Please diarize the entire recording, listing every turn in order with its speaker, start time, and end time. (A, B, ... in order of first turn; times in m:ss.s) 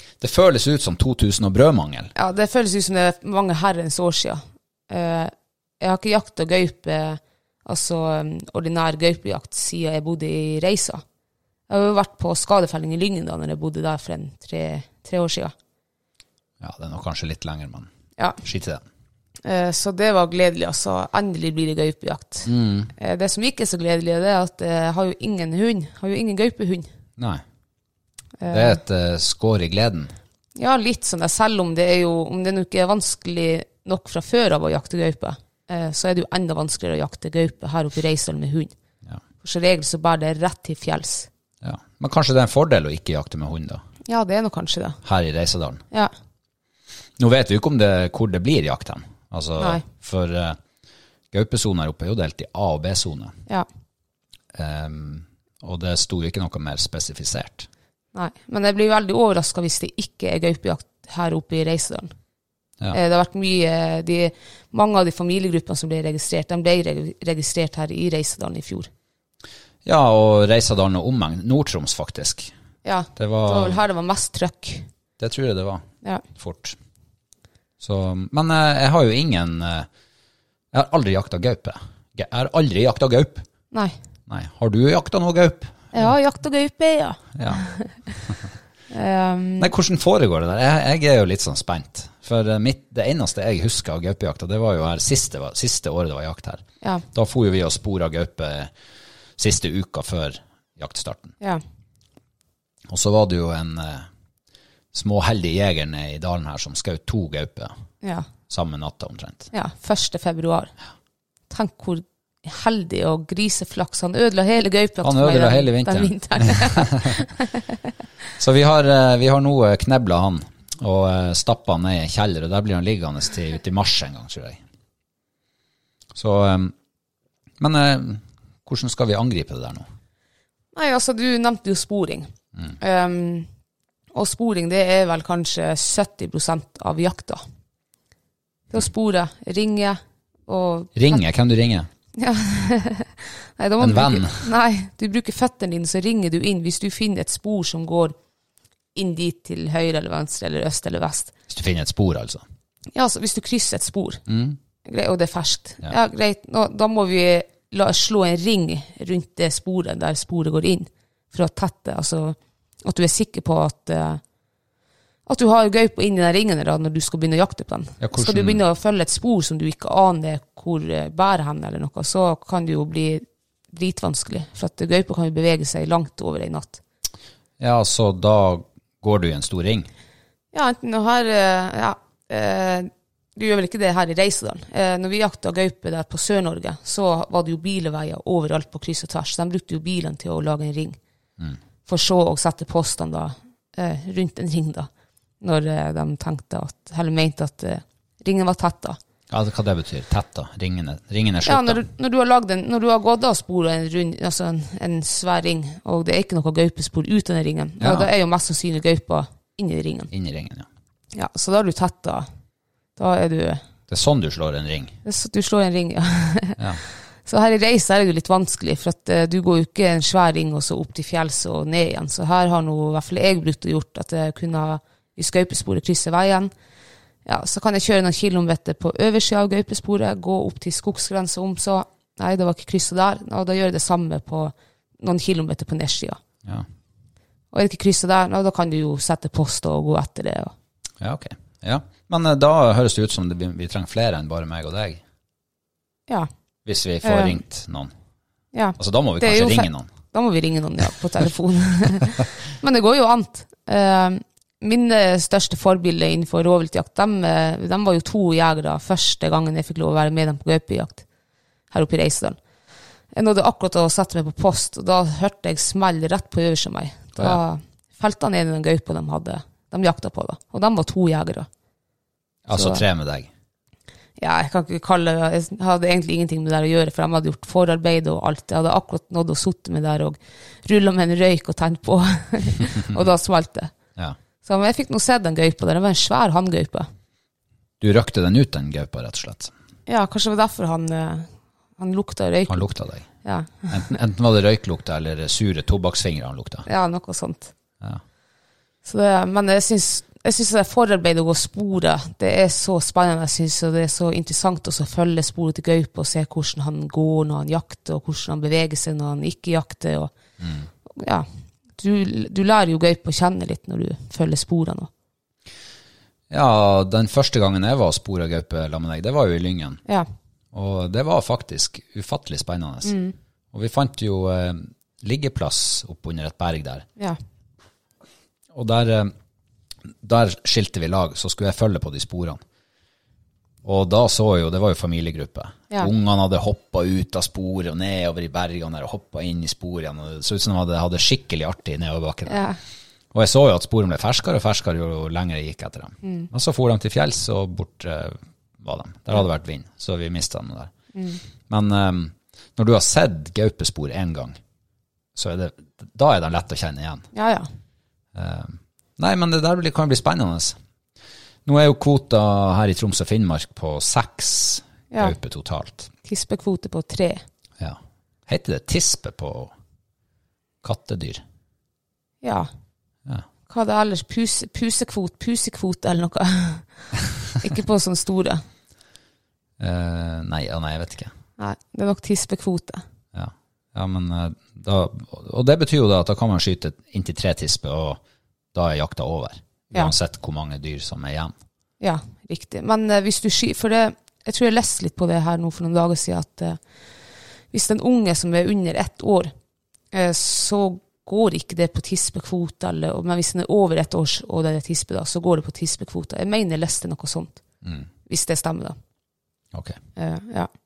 0:00.2-0:02.1 A
0:02.1-0:11.0 B
0:11.7-0:15.5 B
0:16.6-0:17.9 A
0:18.4-0:18.8 A
0:19.4-0:26.9 B
0:22.4-0:22.9 A
0:27.2-0:27.4 A
0:28.4-0:28.8 B
0:28.5-0:30.1 A
0:30.6-0:38.7 B
0:39.4-0:41.3 B
0:41.6-0:43.8 A
0:44.1-0:45.0 B
0:45.0-0:45.8 A
0:47.2-0:50.6 A
0:49.6-0:49.8 B
0:51.3-0:53.4 A
0:54.5-0:57.7 A
0:58.1-1:02.1 B
1:02.9-1:08.9 B
1:09.8-1:12.5 A
1:12.8-1:14.8 B
1:13.2-1:13.8 A
1:15.2-1:16.8 A
1:17.8-1:19.9 A
1:20.7-1:23.4 A
1:24.3-1:26.1 A
1:25.9-1:27.9 B
1:27.3-1:27.6 A
1:28.9-1:29.7 B
1:29.6-1:38.7 A
1:39.4-1:41.3 A
1:42.9-1:44.1 A
1:44.9-1:47.7 A
1:48.0-1:48.3 B
1:48.5-1:49.5 A
1:49.5-1:50.7 B
1:51.5-1:57.8 B
1:55.0-1:57.2 A
1:58.4-2:04.6 A
2:06.1-2:06.7 A
2:07.6-2:09.8 A
2:10.7-2:13.5 B
2:14.1-2:17.4 B
2:18.7-2:21.2 B
2:20.9-2:21.9 A
2:22.2-2:28.1 B
2:23.8-2:24.5 A
2:28.9-2:31.3 B
2:31.5-2:32.4 A
2:32.9-2:34.2 B
2:34.3-2:34.6 A
2:34.8-2:44.2 B
2:45.3-2:56.8 B
2:48.0-2:48.6 A
2:57.6-2:59.9 A
3:00.5-3:11.0 B
3:11.8-3:14.9 B
3:15.4-3:19.0 B
3:19.3-3:21.8 A
3:21.4-3:30.1 B
3:27.8-3:28.1 A
3:30.1-3:30.7 A
3:31.1-3:32.3 B
3:33.0-3:33.6 B
3:33.9-3:35.0 A
3:35.0-3:36.6 B
3:37.2-3:46.5 B
3:47.2-3:56.2 B
3:57.5-4:00.5 B
4:01.0-4:05.0 A
4:06.6-4:07.9 A
4:07.0-4:07.4 B
4:08.5-4:21.0 B
4:08.8-4:09.9 A
4:21.7-4:22.4 B
4:23.1-4:31.5 B
4:32.4-4:33.3 A
4:32.5-4:32.8 B
4:34.2-4:43.7 B
4:44.4-4:46.9 B
4:47.8-4:49.5 A
4:49.9-4:52.7 B
4:52.5-4:53.1 A
4:53.2-4:53.8 B
4:53.7-4:56.7 A
4:56.6-4:57.5 B
4:58.8-5:10.1 B
5:10.4-5:10.7 A
5:10.9-5:14.9 B
5:16.3-5:19.8 A
5:20.5-5:23.0 A
5:22.8-5:23.1 B
5:23.5-5:26.9 A
5:28.5-5:29.1 A
5:29.9-5:32.4 A
5:33.6-5:42.5 A
5:42.3-5:42.6 B
5:43.1-5:50.7 A
5:46.0-5:46.3 B
5:50.9-5:51.2 B
5:51.5-5:54.4 A
5:55.1-5:57.0 A
5:57.1-5:57.5 B
5:58.1-6:00.6 A
6:01.4-6:05.9 A
6:04.9-6:05.2 B
6:06.0-6:07.2 B
6:07.6-6:09.5 A
6:10.6-6:11.2 A
6:12.2-6:12.5 B
6:13.5-6:16.7 B
6:17.4-6:18.4 B
6:19.6-6:21.1 A
6:21.4-6:22.8 B
6:23.1-6:28.0 A
6:28.5-6:31.3 A
6:31.8-6:36.6 B
6:37.5-6:39.3 B
6:39.9-6:47.4 B
6:47.6-6:47.9 A
6:48.0-6:48.8 B
6:49.5-6:49.8 A
6:50.0-6:50.5 B